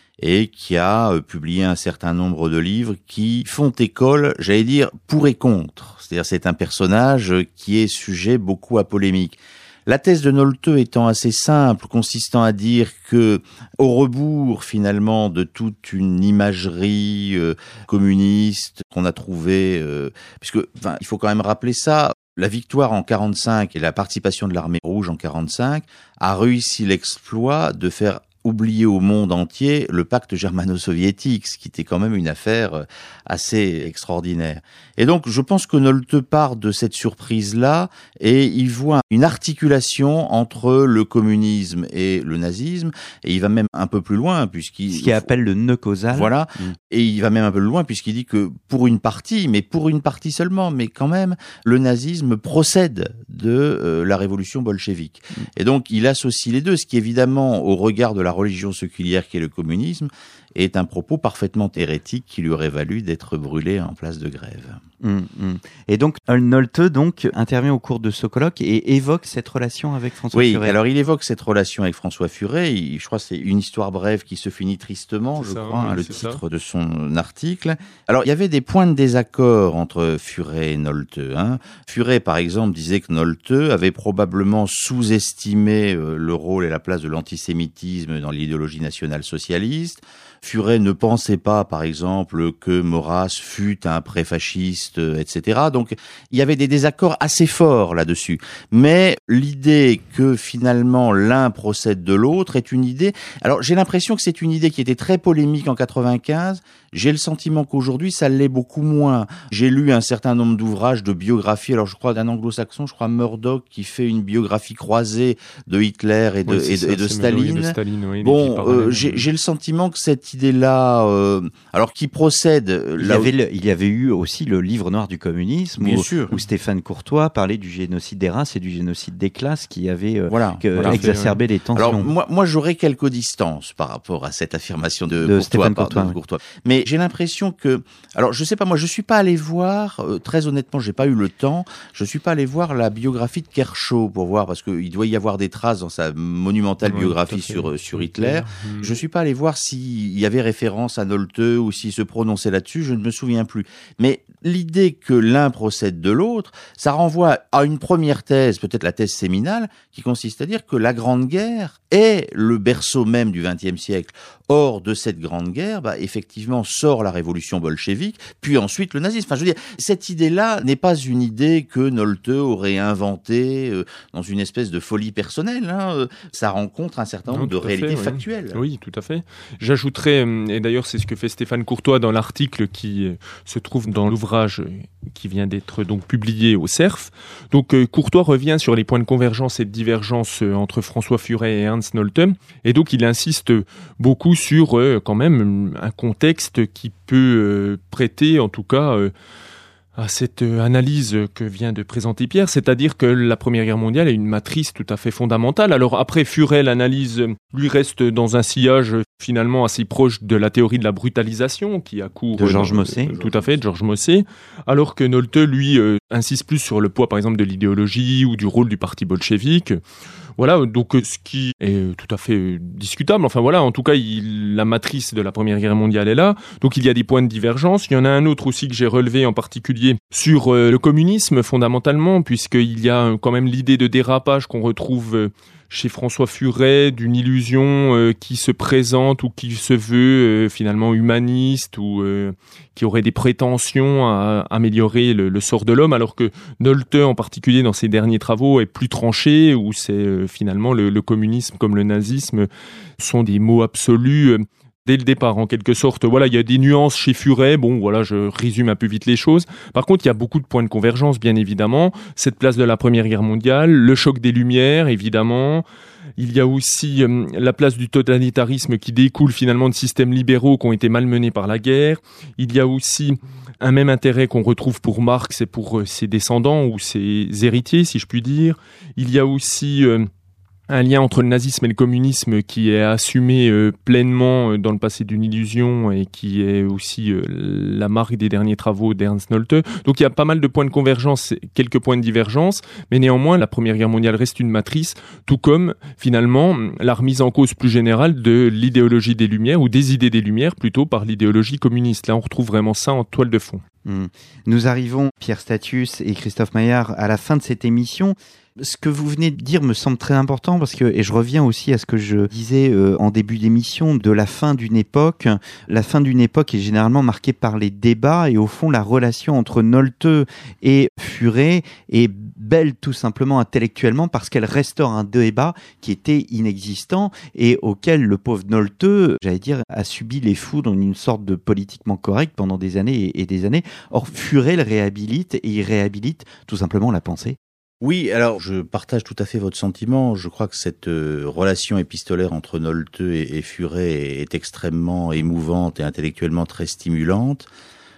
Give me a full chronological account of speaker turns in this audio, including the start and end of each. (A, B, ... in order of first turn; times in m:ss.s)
0:00.2-0:45.3 A
0:44.9-0:46.7 B
0:46.1-1:04.8 A
1:05.0-1:10.8 B
1:10.3-2:03.3 A
1:15.4-1:16.4 C
1:56.5-1:59.3 C
2:03.0-2:12.1 B
2:05.8-2:06.3 A
2:10.3-2:11.1 A
2:10.8-2:11.4 C
2:11.8-2:58.6 A
2:15.2-2:16.2 B
2:26.8-2:29.0 C
2:57.3-3:19.1 C
3:20.0-3:39.8 C
3:32.4-3:33.1 B
3:33.1-3:33.6 A
3:40.4-4:25.6 C
4:26.2-4:40.1 C
4:40.7-5:03.6 C
5:03.8-5:37.4 B
5:37.8-5:47.5 A